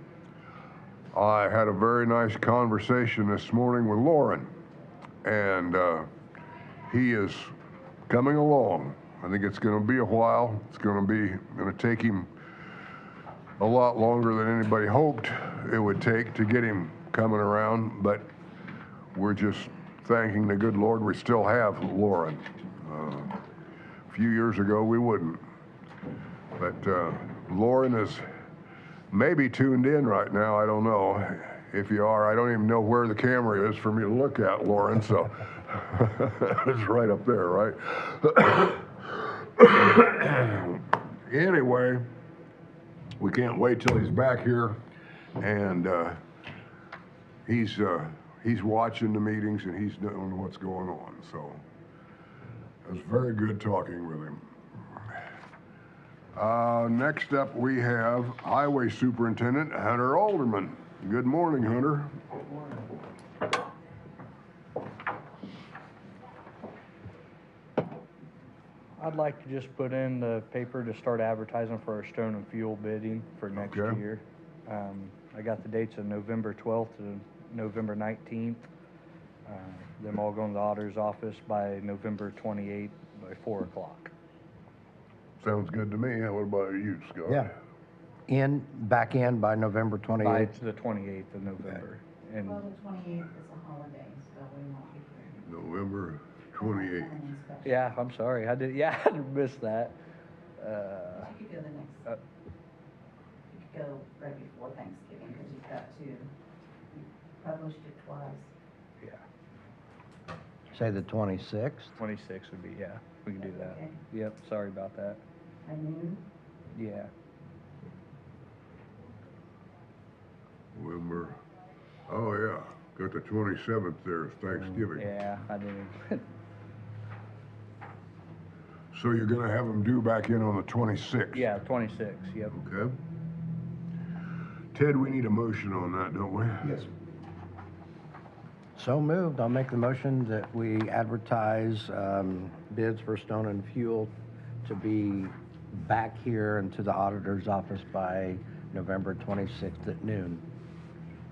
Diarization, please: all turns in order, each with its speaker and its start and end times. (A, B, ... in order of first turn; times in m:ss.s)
0:01.1-0:04.5 A
0:05.2-0:06.1 A
0:06.9-0:07.5 A
0:08.1-0:12.3 A
0:13.6-0:18.3 A
0:19.1-0:23.4 A
0:24.1-0:25.4 A
0:26.6-0:28.2 A
0:29.1-0:42.1 A
0:43.2-0:44.8 A
0:45.4-0:46.2 A
0:47.5-0:51.6 A
0:52.8-0:54.4 A
0:56.4-1:02.2 A
1:09.0-1:18.7 B
1:13.5-1:14.0 A
1:19.5-1:24.1 B
1:25.4-1:27.5 A
1:27.3-1:27.5 C
1:28.3-1:30.5 C
1:30.2-1:32.7 B
1:32.4-1:35.4 D
1:35.4-1:37.2 A
1:36.7-1:37.8 D
1:37.6-1:40.0 B
1:40.6-1:41.4 B
1:41.2-1:42.0 D
1:43.5-1:46.3 D
1:46.9-1:48.5 D
1:50.7-1:52.0 C
1:52.0-1:55.2 B
1:53.6-1:53.9 D
1:55.6-1:56.2 D
1:56.8-1:57.1 B
2:00.7-2:01.4 A
2:02.1-2:05.0 A
2:05.0-2:06.3 B
2:08.9-2:11.5 A
2:11.3-2:12.5 B
2:12.5-2:13.0 A
2:14.7-2:16.9 A
2:18.8-2:24.1 C
2:24.6-2:30.4 C